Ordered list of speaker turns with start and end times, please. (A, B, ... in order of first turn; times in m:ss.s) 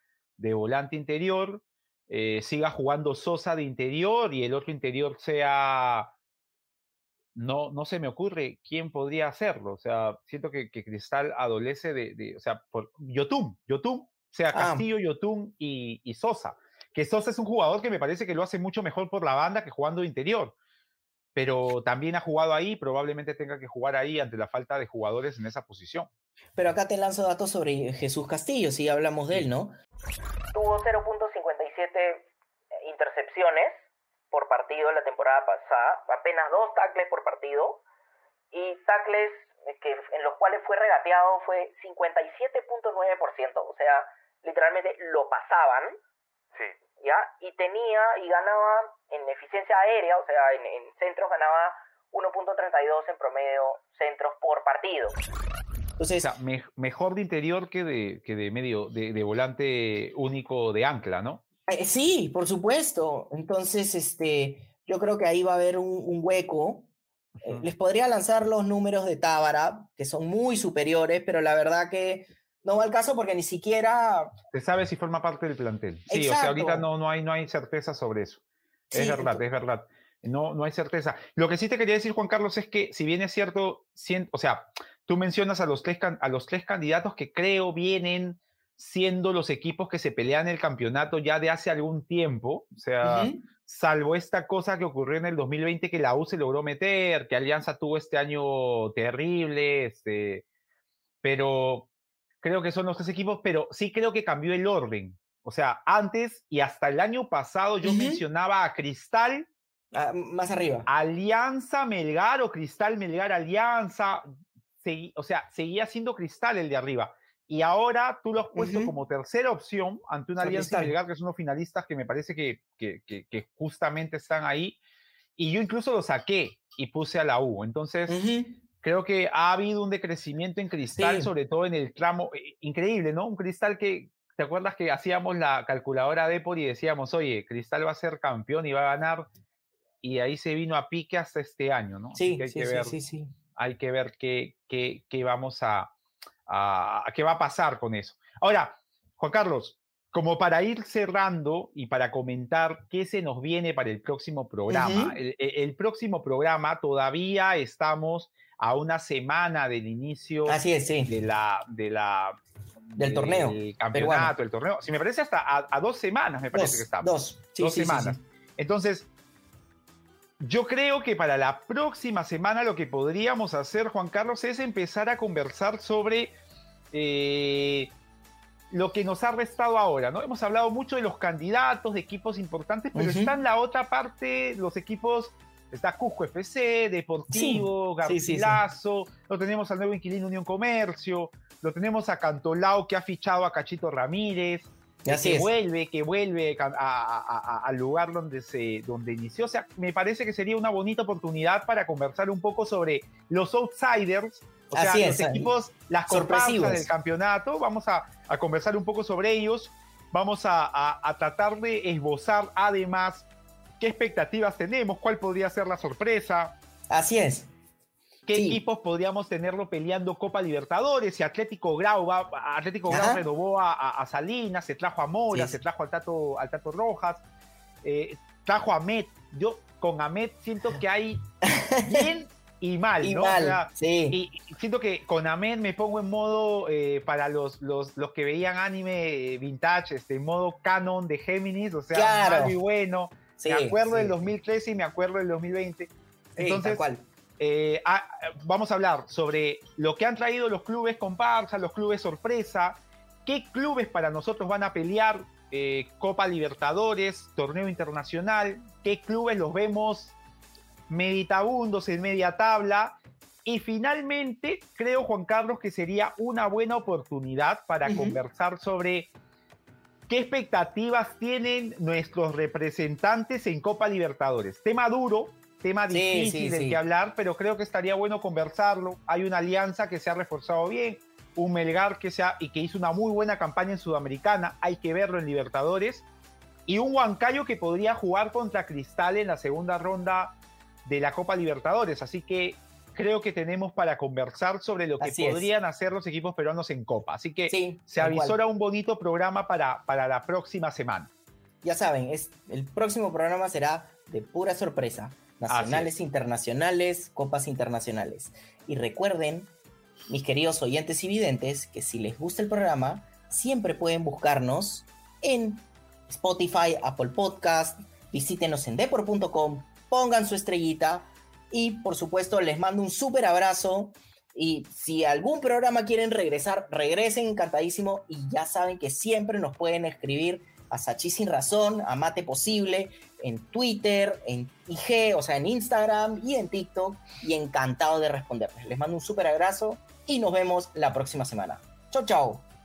0:00.4-0:06.1 A
0:07.4-0:20.6 A
0:14.5-0:14.9 B
0:21.4-0:26.1 A
0:26.6-0:29.7 B
0:30.5-0:32.3 C
0:32.8-0:37.8 C
0:38.5-0:46.0 C
0:47.0-0:55.2 C
0:56.0-0:56.3 B
0:56.2-1:01.4 A
1:01.7-1:06.9 B
1:07.4-1:07.7 A
1:07.4-1:14.3 B
1:14.5-1:18.4 A
1:16.1-1:16.9 B
1:18.9-1:19.4 B
1:18.9-1:40.4 A
1:33.0-1:33.4 B
1:41.2-1:41.9 A
1:42.4-1:49.5 A
1:47.8-1:48.2 B
1:49.9-1:50.9 B
1:50.9-1:54.3 A
1:54.8-2:04.8 A
1:58.6-1:58.9 B
2:00.4-2:01.0 B
2:05.4-2:08.2 A
2:08.1-2:08.6 B
2:08.8-2:19.3 A
2:10.9-2:11.3 B
2:20.0-2:23.0 A
2:22.2-2:23.4 B
2:23.6-2:25.9 A
2:26.5-2:42.4 A
2:34.7-2:35.2 B
2:40.5-2:41.2 B
2:42.9-2:49.1 A
2:43.0-2:44.4 B
2:46.5-2:48.2 B
2:50.4-2:56.3 A
2:56.9-2:57.9 A
2:58.7-3:33.3 A
3:02.9-3:03.4 B
3:07.3-3:08.6 B
3:15.1-3:15.5 B
3:24.7-3:25.5 B
3:26.1-3:26.9 B
3:33.8-3:36.6 A
3:36.9-3:37.5 B
3:38.3-3:47.2 A
3:38.3-3:38.6 B
3:42.9-3:43.2 B
3:45.3-3:45.6 B
3:47.8-3:51.3 A
3:51.4-3:52.1 B
3:51.8-4:06.9 A
3:53.0-3:54.2 B
4:01.9-4:02.6 B
4:03.4-4:04.3 B
4:06.4-4:07.0 B
4:07.4-4:20.2 A
4:20.9-4:29.1 A
4:27.8-4:28.2 B
4:30.1-4:46.1 A
4:35.9-4:36.8 B
4:46.7-5:01.1 A
4:55.0-4:55.5 B
4:57.5-4:58.4 B
5:01.6-5:09.5 B
5:05.5-5:05.9 A
5:10.1-5:42.5 B